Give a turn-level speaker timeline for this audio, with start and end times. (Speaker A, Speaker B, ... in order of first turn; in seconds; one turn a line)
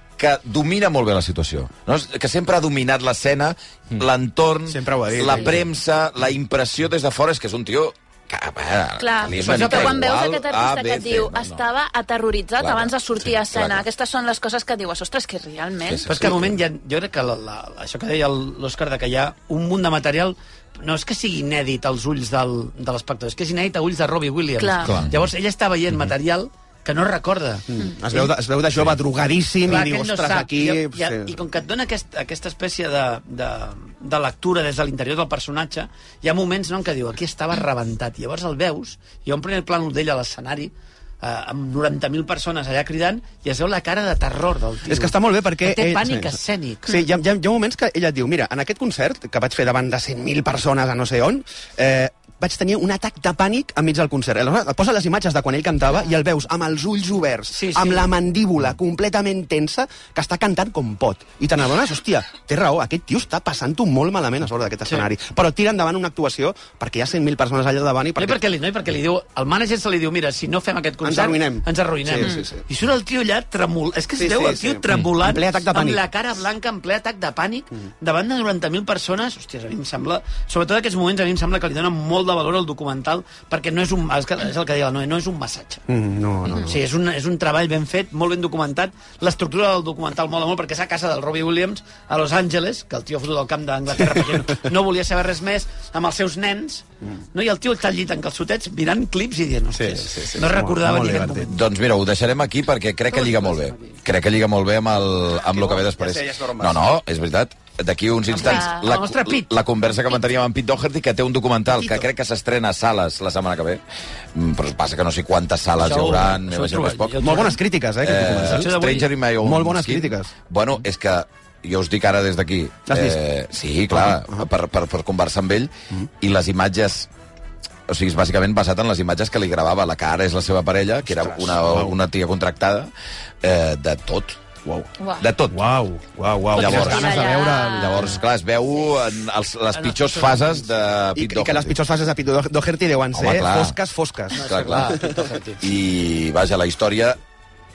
Speaker A: 0.2-11.6
Speaker B: 4.7-5.7
Speaker C: 9.0-16.2
Speaker D: 9.4-10.0
Speaker A: 12.6-13.8
Speaker A: 15.9-16.6
Speaker D: 16.1-28.2
Speaker C: 24.6-25.0
Speaker A: 24.9-25.1
Speaker B: 27.7-31.4
Speaker D: 29.6-47.0
Speaker B: 44.9-68.4
Speaker D: 57.5-58.1
Speaker D: 68.2-85.8
Speaker B: 71.0-72.6
Speaker B: 74.2-76.0
Speaker B: 85.9-86.8
Speaker D: 86.5-101.6
Speaker B: 99.8-101.6
Speaker A: 101.5-113.8
Speaker D: 103.2-103.7
Speaker B: 105.3-106.8
Speaker D: 108.3-109.5
Speaker C: 108.4-108.9
Speaker B: 111.8-112.1
Speaker A: 114.3-117.5
Speaker D: 115.8-117.6
Speaker B: 117.2-118.7
Speaker A: 118.0-127.1
Speaker D: 118.3-119.1
Speaker B: 119.4-120.3
Speaker B: 122.9-123.2
Speaker B: 123.9-124.5
Speaker A: 127.9-132.9
Speaker B: 131.1-131.9
Speaker A: 133.4-134.4
Speaker C: 135.0-135.3
Speaker A: 135.2-135.6
Speaker B: 135.5-138.2
Speaker A: 136.5-141.8
Speaker C: 136.6-138.1
Speaker D: 139.7-140.7
Speaker B: 141.2-145.2
Speaker A: 143.1-143.8
Speaker D: 144.3-145.6
Speaker A: 144.4-147.2